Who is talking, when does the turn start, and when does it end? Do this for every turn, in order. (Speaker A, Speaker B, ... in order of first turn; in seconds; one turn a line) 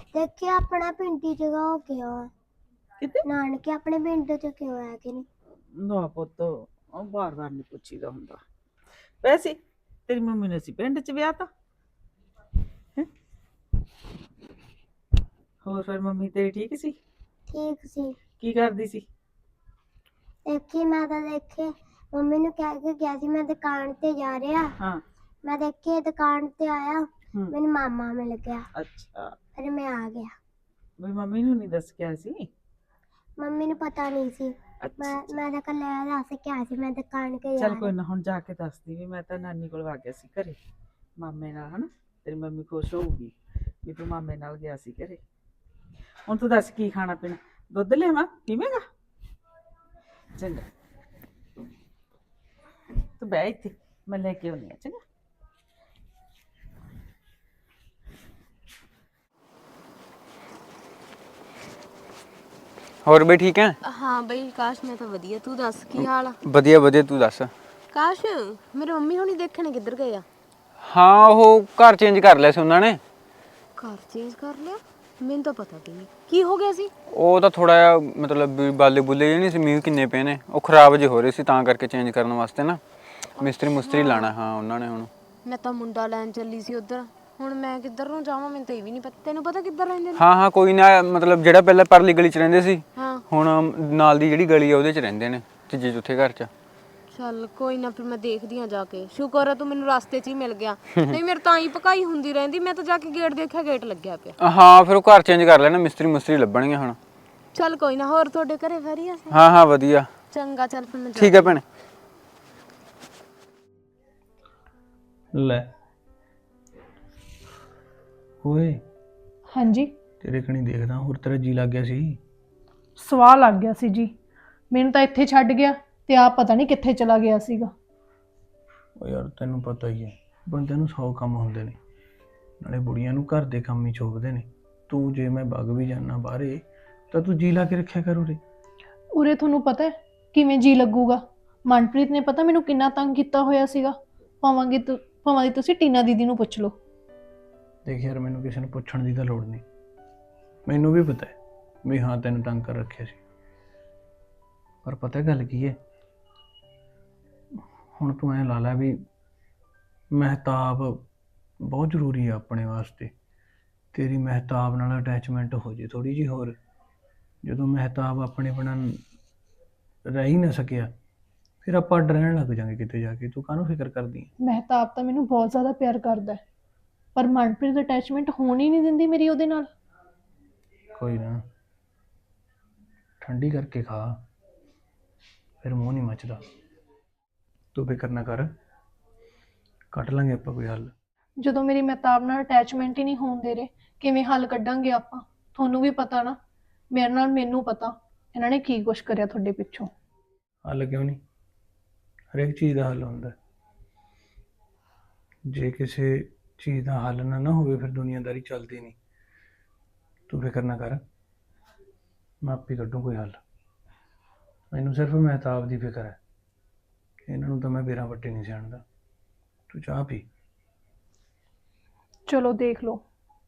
Speaker A: 0.1-2.3
Speaker A: 3.2-5.2
Speaker B: 5.8-8.4
Speaker B: 9.2-11.5
Speaker B: 15.6-16.9
Speaker A: 17.5-18.1
Speaker B: 18.4-19.0
Speaker A: 20.5-24.7
Speaker A: 25.4-28.6
Speaker B: 28.7-29.3
Speaker A: 29.6-30.3
Speaker B: 31.0-32.5
Speaker A: 33.4-37.9
Speaker B: 34.8-35.4
Speaker B: 37.6-40.6
Speaker B: 41.2-43.3
Speaker B: 43.8-45.2
Speaker B: 46.2-48.9
Speaker B: 50.4-50.6
Speaker B: 53.2-55.0
Speaker C: 63.0-63.8
Speaker D: 63.8-66.4
Speaker C: 66.0-67.5
Speaker D: 67.9-70.2
Speaker C: 70.8-73.0
Speaker D: 73.8-76.9
Speaker C: 77.1-82.8
Speaker D: 83.4-84.3
Speaker C: 83.4-85.1
Speaker D: 85.5-90.2
Speaker C: 90.1-96.5
Speaker D: 93.0-93.2
Speaker D: 97.1-104.3
Speaker C: 104.4-107.0
Speaker D: 107.5-109.4
Speaker C: 109.3-110.1
Speaker D: 110.3-111.6
Speaker C: 111.1-111.6
Speaker E: 115.3-115.7
Speaker E: 118.4-118.8
Speaker F: 119.5-119.9
Speaker E: 120.2-122.2
Speaker F: 123.0-124.1
Speaker F: 124.7-127.7
Speaker E: 129.0-131.8
Speaker E: 132.6-138.4
Speaker F: 139.2-146.8
Speaker E: 147.8-149.6
Speaker E: 150.7-151.3
Speaker E: 151.8-153.2
Speaker E: 154.8-155.8
Speaker E: 158.0-159.0
Speaker E: 160.1-161.0
Speaker E: 161.6-163.1
Speaker E: 163.9-166.6
Speaker E: 167.4-169.0
Speaker E: 170.1-170.9
Speaker E: 171.6-174.3
Speaker F: 174.4-176.4
Speaker F: 177.2-179.7
Speaker E: 180.9-181.4
Speaker E: 183.2-184.2
Speaker E: 185.6-186.4
Speaker E: 187.7-188.5
Speaker E: 189.9-190.9
Speaker F: 191.4-196.4
Speaker F: 196.9-199.9
Speaker E: 200.7-201.2
Speaker E: 202.3-203.3
Speaker E: 205.5-208.9
Speaker E: 210.3-211.0
Speaker E: 212.4-213.4
Speaker E: 214.7-216.2
Speaker E: 217.2-218.8
Speaker E: 219.7-220.2
Speaker F: 222.3-223.0